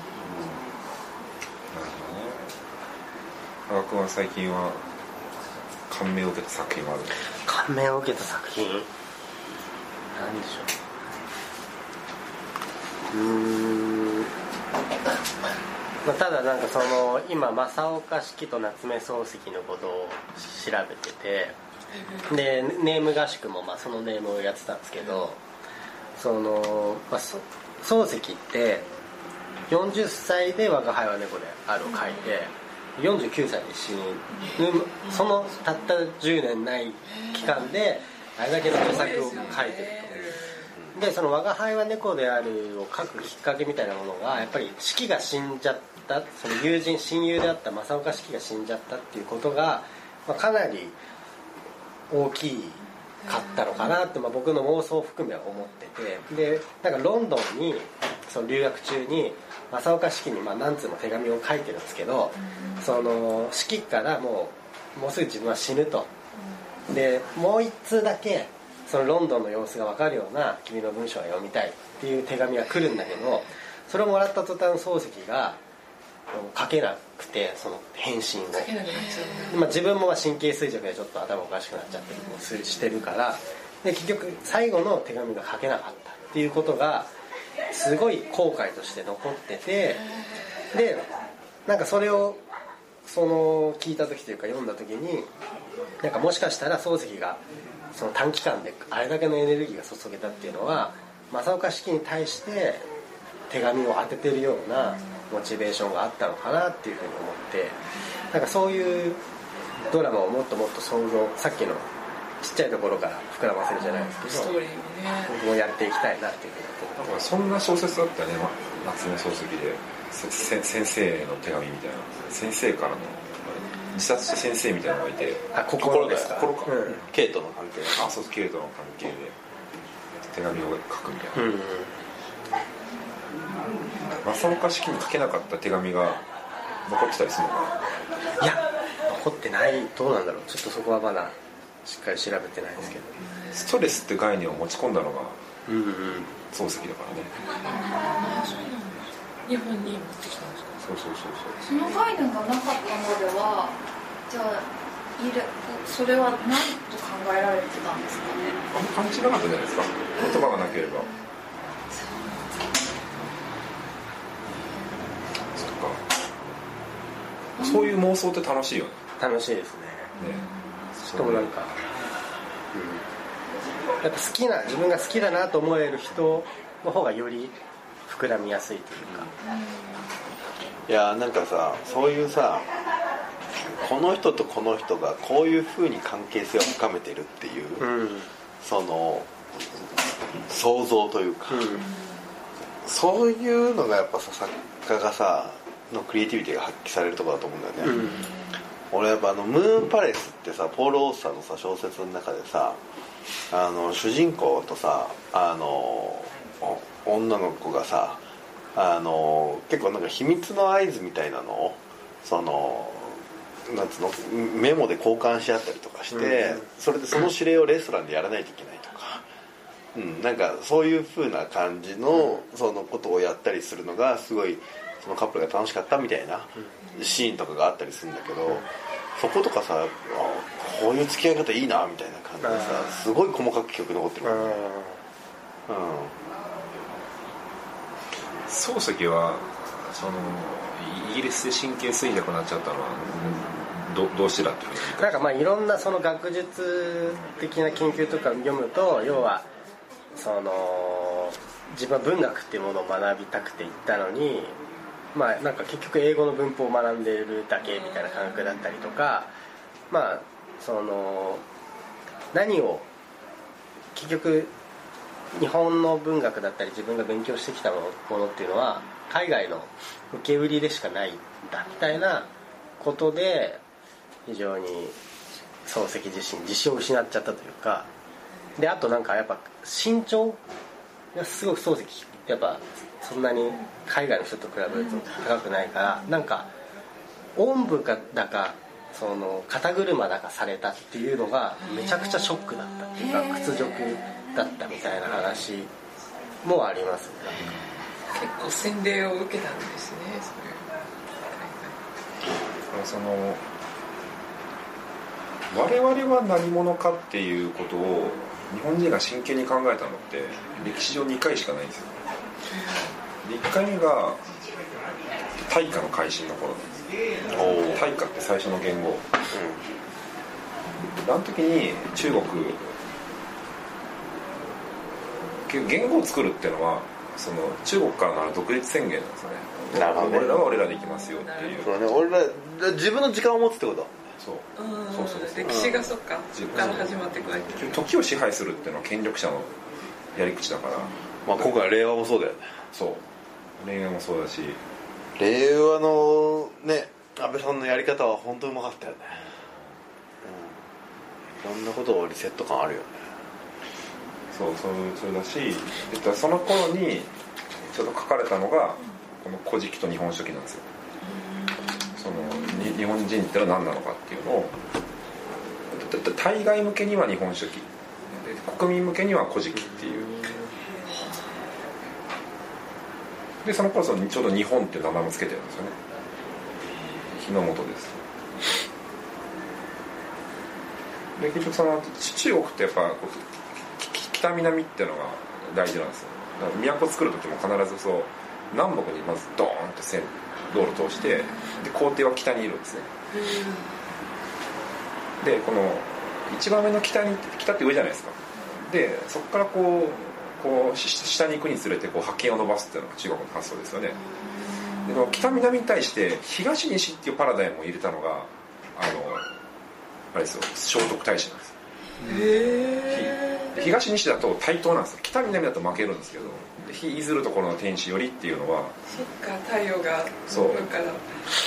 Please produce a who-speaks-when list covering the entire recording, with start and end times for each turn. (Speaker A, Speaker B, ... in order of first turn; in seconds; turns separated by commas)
Speaker A: 0.2-0.6, Speaker A: 1.7-2.5, Speaker A: 3.7-4.8, Speaker A: 5.9-7.2, Speaker B: 7.5-8.9, Speaker B: 10.1-10.7, Speaker B: 13.1-14.3, Speaker B: 16.0-21.6, Speaker C: 21.9-22.4, Speaker B: 22.3-25.4, Speaker B: 26.2-28.9, Speaker B: 29.7-40.3, Speaker C: 31.9-32.4, Speaker C: 34.4-35.4, Speaker C: 37.1-37.6, Speaker C: 38.6-40.7, Speaker B: 40.9-51.0, Speaker B: 52.1-66.1, Speaker C: 53.3-53.7, Speaker C: 62.5-62.8, Speaker B: 66.9-75.6, Speaker B: 76.3-78.7, Speaker C: 78.5-79.7, Speaker B: 79.5-87.1, Speaker B: 87.7-90.0, Speaker B: 90.7-91.0, Speaker B: 91.7-92.4, Speaker B: 93.0-95.3, Speaker B: 96.0-97.4, Speaker B: 97.9-102.9, Speaker B: 103.5-107.8, Speaker B: 108.3-109.2, Speaker B: 109.9-111.9, Speaker B: 112.4-114.5, Speaker C: 113.8-115.3, Speaker B: 115.2-117.0, Speaker A: 117.0-127.0, Speaker B: 125.5-127.0, Speaker D: 125.8-128.1, Speaker A: 127.9-129.4, Speaker A: 130.3-131.5, Speaker B: 131.4-131.9, Speaker A: 134.2-136.2, Speaker A: 136.8-137.8, Speaker B: 138.4-143.1, Speaker A: 143.5-145.4, Speaker B: 145.7-146.3, Speaker A: 146.5-147.3, Speaker C: 147.4-150.9, Speaker A: 150.8-151.6, Speaker E: 151.7-153.8, Speaker E: 154.3-154.7, Speaker E: 155.2-158.6, Speaker A: 158.7-161.1, Speaker E: 160.2-161.1, Speaker E: 161.9-162.4, Speaker A: 165.6-166.0, Speaker E: 167.6-167.9, Speaker A: 167.6-169.0, Speaker B: 169.2-170.1, Speaker E: 170.2-170.6, Speaker A: 170.2-171.8, Speaker B: 171.2-171.7, Speaker B: 172.7-173.1, Speaker B: 174.0-177.6, Speaker B: 178.1-179.3, Speaker E: 179.5-179.9, Speaker D: 180.9-182.7, Speaker D: 183.6-187.9, Speaker B: 187.8-188.3, Speaker D: 188.6-189.3, Speaker D: 190.5-191.9, Speaker B: 191.5-191.8, Speaker D: 192.8-198.2, Speaker B: 197.8-198.3, Speaker D: 198.9-202.8, Speaker D: 203.5-208.2, Speaker D: 208.8-219.2, Speaker B: 216.1-216.6, Speaker D: 219.9-234.6, Speaker B: 232.4-232.9, Speaker B: 234.2-235.0, Speaker D: 235.7-236.1, Speaker A: 238.5-245.3, Speaker B: 245.0-249.5, Speaker B: 250.1-254.6, Speaker B: 255.1-259.3, Speaker C: 257.7-258.3, Speaker B: 259.9-261.4, Speaker B: 262.3-262.9, Speaker B: 263.9-264.5, Speaker B: 265.3-272.3, Speaker B: 272.8-273.6, Speaker B: 274.2-275.0, Speaker B: 275.7-277.9, Speaker B: 278.6-280.4, Speaker B: 281.1-286.5, Speaker B: 287.4-295.7, Speaker C: 291.6-292.2, Speaker C: 293.0-293.4, Speaker B: 296.4-297.4, Speaker C: 298.1-300.8, Speaker C: 301.3-301.8, Speaker A: 302.7-303.4, Speaker A: 305.5-312.0, Speaker C: 312.5-312.9, Speaker A: 313.2-314.2, Speaker A: 315.4-316.7, Speaker D: 317.3-317.8, Speaker A: 317.3-319.1, Speaker D: 319.3-319.6, Speaker A: 321.0-322.7, Speaker A: 325.5-331.7, Speaker D: 329.7-330.3, Speaker C: 330.4-331.7, Speaker D: 331.6-334.0, Speaker A: 334.2-335.7, Speaker C: 334.6-337.8, Speaker D: 335.4-335.9, Speaker A: 336.3-339.5, Speaker A: 340.1-341.6, Speaker D: 341.2-342.6, Speaker A: 342.7-343.1, Speaker A: 343.6-344.6, Speaker D: 345.2-349.3, Speaker A: 349.5-349.8, Speaker D: 350.2-350.6, Speaker D: 351.4-353.0, Speaker A: 354.3-360.7, Speaker C: 361.0-362.6, Speaker A: 362.0-364.6, Speaker A: 365.6-370.3, Speaker A: 373.4-375.8, Speaker A: 377.0-378.0, Speaker A: 381.2-392.9, Speaker C: 393.2-393.6, Speaker A: 395.2-404.0, Speaker A: 404.8-409.3, Speaker A: 410.1-411.5, Speaker C: 412.0-413.5, Speaker A: 412.9-418.8, Speaker C: 418.9-421.2, Speaker A: 420.3-420.7